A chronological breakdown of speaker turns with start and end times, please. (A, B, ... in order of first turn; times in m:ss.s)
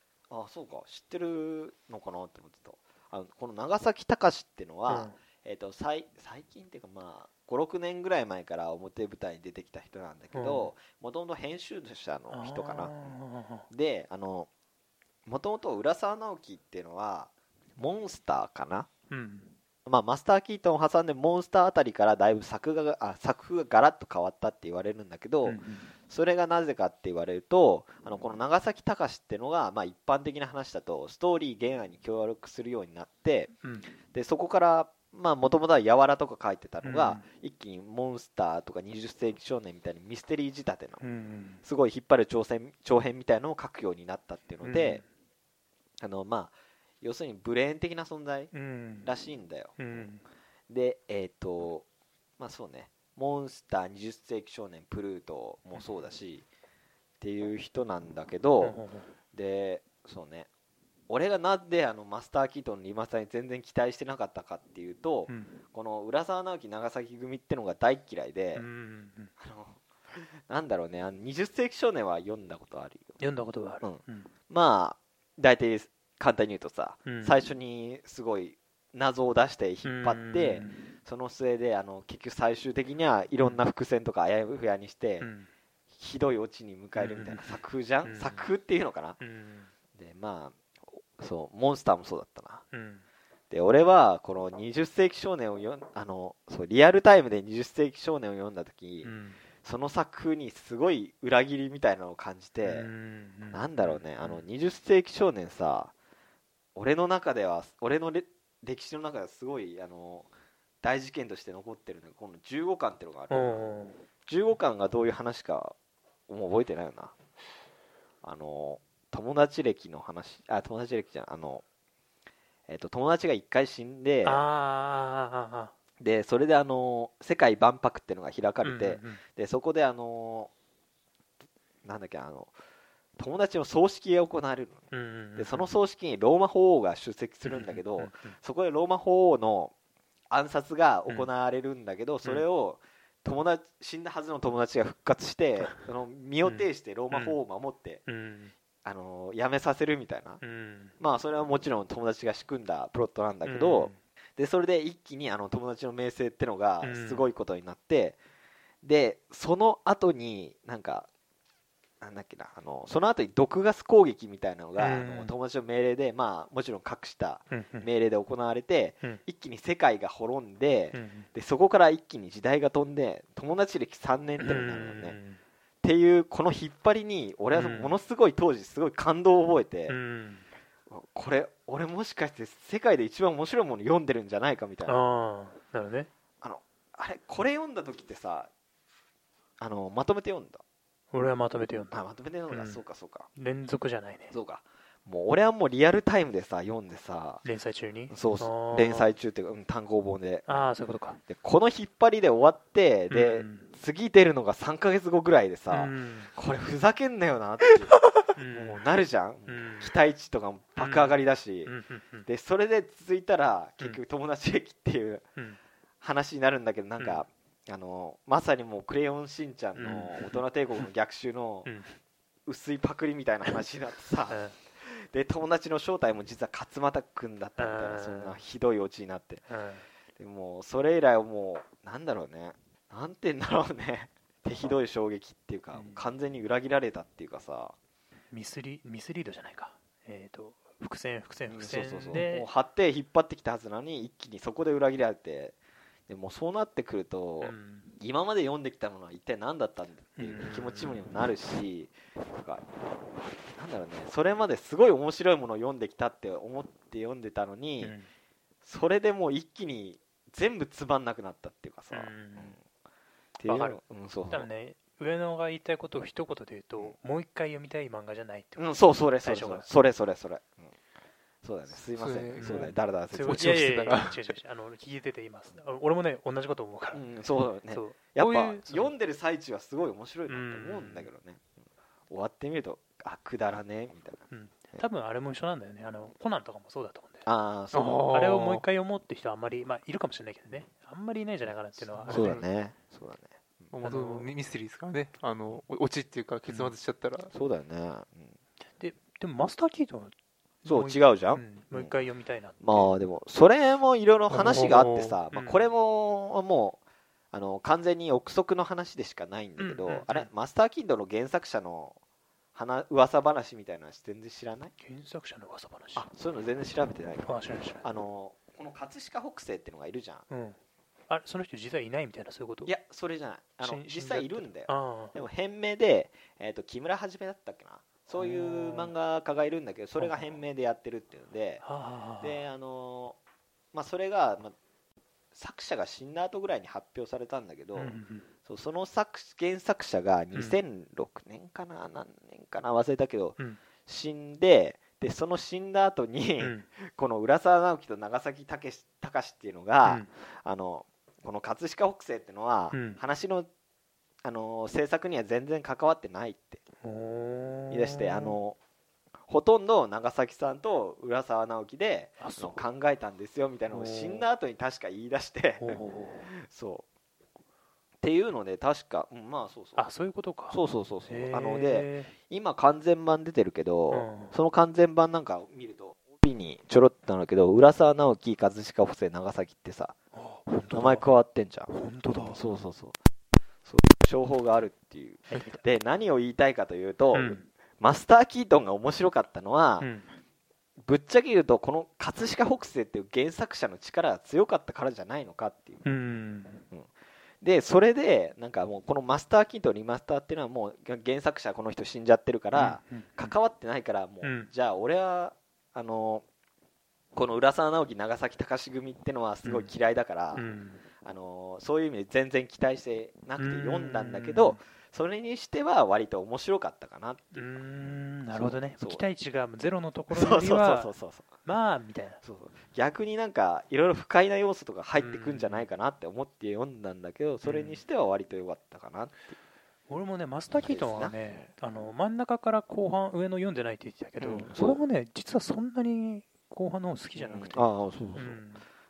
0:00.3-0:13.2 A
0:04.9-0:05.2 B
0:10.3-0:10.7 B
0:12.3-0:13.7 B
0:13.7-0:14.5 A
0:15.3-0:18.9 A
0:19.1-0:19.6 B
0:19.9-0:33.5 A
0:25.4-0:25.9 B
0:33.6-0:33.9 B
0:34.1-0:41.0 A
0:36.8-0:37.2 B
0:41.0-0:41.6 B
0:41.6-0:45.0 A
0:44.6-0:45.1 B
0:46.0-0:50.1 A
0:48.5-0:49.1 B
0:49.8-0:50.2 B
0:50.7-0:51.9 A
0:52.4-0:56.5 A
0:55.7-0:56.0 B
0:57.2-0:58.8 A
0:58.6-0:59.1 B
0:59.3-1:00.5 A
1:01.1-1:08.7 A
1:05.3-1:05.6 B
1:08.6-1:09.3 B
1:09.4-1:13.2 A
1:13.2-1:14.3 B
1:13.8-1:25.3 A
1:17.0-1:17.4 B
1:19.8-1:20.9 B
1:25.2-1:25.5 B
1:25.9-1:29.2 A
1:27.0-1:28.5 B
1:29.2-1:29.7 B
1:30.0-1:32.6 A
1:32.7-1:33.0 B
1:33.5-1:42.9 A
1:39.0-1:39.4 B
1:42.6-1:44.5 B
1:43.5-1:45.9 A
1:46.8-1:50.3 A
1:50.8-1:53.7 A
1:53.3-1:54.0 B
1:54.3-1:55.8 A
1:56.3-1:57.2 A
1:58.2-2:01.6 A
2:02.7-2:04.4 A
2:04.2-2:05.7 B
2:06.0-2:10.5 A
2:08.6-2:09.2 B
2:11.8-2:12.5 A
2:13.2-2:14.8 A
2:14.9-2:15.7 B
2:15.4-2:19.7 A
2:17.4-2:18.4 B
2:20.3-2:28.0 A
2:26.4-2:27.4 B
2:28.1-2:28.5 B
2:28.8-2:30.4 A
2:30.4-2:31.0 B
2:31.0-2:38.2 A
2:33.4-2:34.0 B
2:36.8-2:37.3 B
2:38.8-2:41.1 A
2:42.0-2:55.2 A
2:44.8-2:45.3 B
2:47.5-2:47.9 B
2:50.9-2:51.3 B
2:54.4-2:55.4 B
2:55.8-3:00.0 A
2:57.5-2:58.0 B
2:59.9-3:00.5 B
3:00.9-3:05.0 A
3:04.9-3:06.1 B
3:06.4-3:08.5 A
3:09.6-3:10.6 A
3:11.1-3:12.0 B
3:11.9-3:13.3 A
3:12.5-3:12.8 B
3:13.4-3:14.3 B
3:14.3-3:17.4 A
3:17.4-3:19.1 B
3:18.1-3:20.7 A
3:20.5-3:21.2 B
3:21.3-3:31.7 A
3:23.1-3:23.7 B
3:25.7-3:26.3 B
3:28.3-3:28.9 B
3:29.5-3:30.0 B
3:30.8-3:32.3 B
3:32.3-3:35.3 A
3:36.0-3:41.7 A
3:39.8-3:40.9 B
3:41.6-3:42.0 B
3:42.5-3:49.5 A
3:44.3-3:44.6 B
3:47.6-3:48.4 B
3:49.5-3:49.9 B
3:50.2-3:57.8 A
3:55.7-3:56.1 B
3:58.3-4:02.5 B
4:01.5-4:05.6 A
4:06.1-4:12.6 A
4:07.4-4:07.9 B
4:10.2-4:11.1 B
4:13.6-4:18.0 A
4:17.8-4:18.1 B
4:18.6-4:22.6 A
4:21.9-4:22.6 B
4:23.4-4:24.5 A
4:23.4-4:29.7 B
4:28.6-4:30.7 A
4:31.4-4:33.6 A
4:31.9-4:34.3 C
4:32.4-4:37.1 B
4:36.9-4:41.6 A
4:37.6-4:38.9 B
4:40.3-4:41.1 B
4:42.1-4:44.8 A
4:44.3-4:47.3 B
4:47.3-4:48.1 A
4:47.7-4:48.6 C
4:48.1-4:52.4 B
4:52.0-4:52.4 C
4:52.1-4:53.7 A
4:53.7-4:57.3 C
4:53.8-4:54.3 B
4:56.5-4:56.8 B
4:57.3-4:58.4 A
4:58.8-5:00.1 B
5:00.6-5:03.0 B
5:00.7-5:02.0 A
5:02.6-5:06.8 A
5:04.3-5:04.8 C
5:04.3-5:05.7 B
5:07.3-5:12.0 A
5:09.6-5:10.3 B
5:12.6-5:14.7 A
5:14.8-5:16.1 B
5:16.0-5:20.3 A
5:17.2-5:17.8 B
5:20.3-5:20.6 B
5:21.1-5:22.7 B
5:22.6-5:31.6 A
5:23.6-5:25.2 B
5:28.1-5:28.9 B
5:30.0-5:30.4 B
5:31.6-5:32.4 B
5:32.2-5:33.2 A
5:33.7-5:34.6 A
5:35.3-5:53.5 A
5:37.8-5:38.3 B
5:40.3-5:40.6 B
5:46.4-5:46.7 B
5:52.7-5:53.0 B
5:54.2-5:56.6 A
5:56.8-5:58.4 B
5:57.7-5:58.6 A
5:59.3-6:06.9 A
6:02.2-6:02.6 B
6:03.7-6:04.3 B
6:05.6-6:06.3 B
6:08.0-6:09.8 A
6:09.8-6:12.1 B
6:10.5-6:20.0 A
6:13.9-6:14.4 B
6:20.1-6:21.1 B
6:20.7-6:23.0 A
6:21.7-6:22.4 B
6:23.6-6:29.9 A
6:25.3-6:25.6 B
6:27.1-6:27.5 B
6:29.8-6:30.1 B
6:30.8-6:35.8 A
6:35.8-6:36.6 B
6:36.7-6:46.2 A
6:42.5-6:43.3 B
6:44.2-6:44.5 B
6:47.1-6:50.5 A
6:49.4-6:49.7 B
6:50.4-6:50.8 B
6:51.0-6:59.0 A
6:53.4-6:54.6 B
6:57.3-7:00.9 B
7:00.1-7:01.3 A
7:01.4-7:02.2 B
7:02.2-7:09.4 A
7:05.0-7:05.7 B
7:07.4-7:07.8 B
7:09.9-7:18.7 B
7:10.6-7:11.5 A
7:14.2-7:14.8 A
7:17.2-7:18.4 A